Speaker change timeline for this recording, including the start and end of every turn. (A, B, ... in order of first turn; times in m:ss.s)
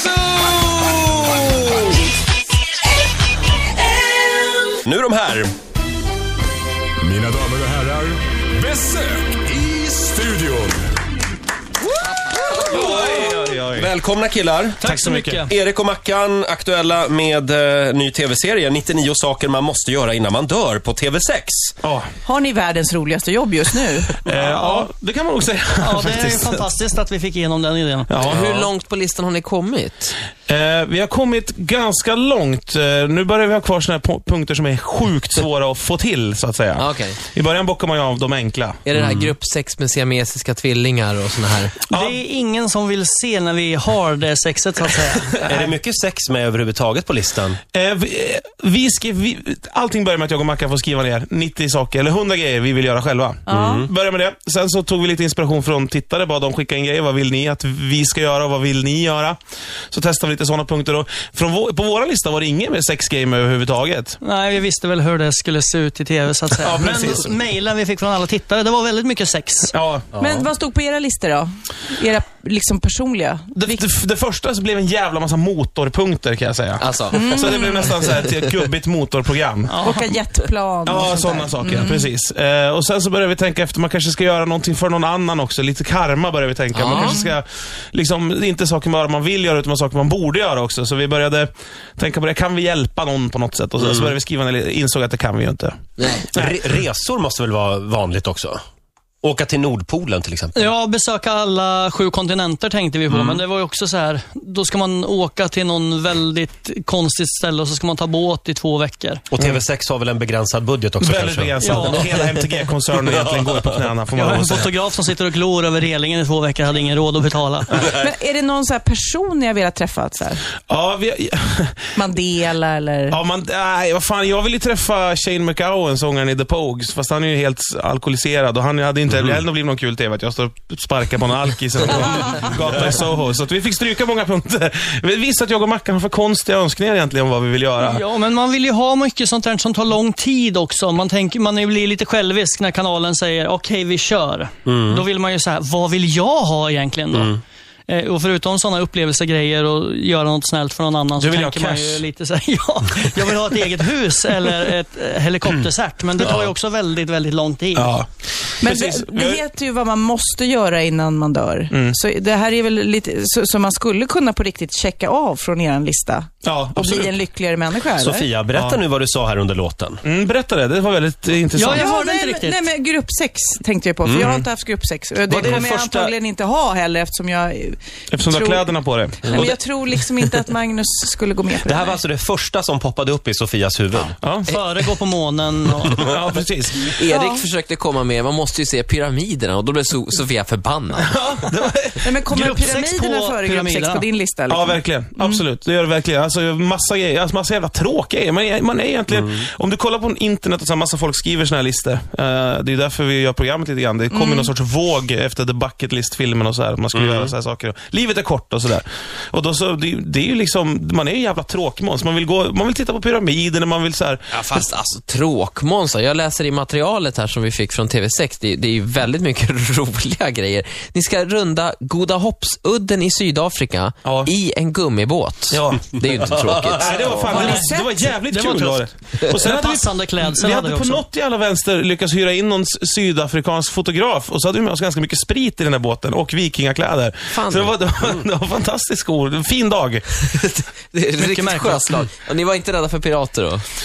0:00.2-0:01.8 A
0:04.8-0:05.5 A
0:07.0-0:10.8 B
0:12.7-0:21.8 A
0:12.7-0:13.9 C
0:14.8-0:15.5 D
0:14.8-0:15.4 C
0:21.8-0:22.1 C
0:22.2-0:24.3 E
0:24.2-0:26.6 C
0:24.4-0:24.8 D
0:25.8-0:28.1 D
0:28.1-0:28.4 C
0:28.2-0:30.2 F
0:28.3-0:28.7 A
0:30.5-0:38.8 C
0:36.8-0:37.2 F
0:38.8-0:41.8 F
0:39.0-0:39.3 A
0:41.9-0:42.2 C
0:41.9-0:45.5 D
0:45.5-0:47.6 A
0:47.7-0:59.4 C
0:53.5-0:53.8 E
0:53.5-0:53.9 A
0:59.9-1:04.2 C
1:04.2-1:09.7 D
1:06.6-1:07.3 C
1:09.7-1:10.2 C
1:10.2-1:10.5 A
1:10.2-1:13.9 E
1:13.6-1:19.8 C
1:16.8-1:17.4 F
1:17.1-1:18.0 E
1:18.0-1:18.4 F
1:19.7-1:20.1 D
1:19.8-1:22.1 E
1:20.8-1:35.8 C
1:26.7-1:27.2 F
1:26.9-1:27.3 E
1:33.8-1:34.1 A
1:36.0-1:36.3 F
1:36.3-1:38.6 A
1:39.2-1:40.7 A
1:40.5-1:49.2 D
1:43.1-1:43.4 A
1:49.3-1:52.1 A
1:51.0-1:54.7 C
1:51.6-1:52.2 D
1:52.9-1:53.8 A
1:54.2-1:57.8 D
1:57.8-1:58.0 A
1:57.8-2:00.4 E
2:00.7-2:02.0 C
2:02.0-2:03.2 E
2:03.1-2:18.0 C
2:17.8-2:27.4 D
2:24.7-2:25.1 A
2:27.1-2:27.4 A
2:27.9-2:38.0 D
2:31.2-2:32.0 C
2:36.2-2:36.5 A
2:37.8-2:38.1 C
2:38.6-2:39.4 C
2:38.6-2:48.3 E
2:41.7-2:42.0 C
2:46.4-2:47.2 C
2:48.0-2:50.0 A
2:48.5-2:48.8 C
2:50.0-2:51.9 C
2:51.5-2:52.6 D
2:51.7-3:02.0 E
2:54.0-2:54.5 A
2:55.3-2:56.1 C
2:58.1-2:59.5 C
2:59.2-2:59.5 F
3:01.6-3:04.2 A
3:04.2-3:04.6 C
3:04.5-3:06.1 D
3:06.0-3:07.0 C
3:06.8-3:11.1 F
3:07.1-3:07.4 E
3:11.0-3:12.5 C
3:12.0-3:15.4 E
3:12.3-3:14.0 D
3:14.5-3:34.3 C
3:19.1-3:19.4 A
3:24.1-3:24.5 E
3:26.9-3:27.3 A
3:34.4-3:47.6 F
3:34.4-3:34.7 A
3:44.0-3:44.3 C
3:45.5-3:45.9 C
3:46.5-3:47.0 A
3:46.7-4:00.0 C
3:47.2-3:47.7 D
3:47.3-3:48.1 E
3:48.2-3:51.0 D
3:57.3-3:57.7 F
4:00.3-4:03.7 F
4:01.2-4:02.1 D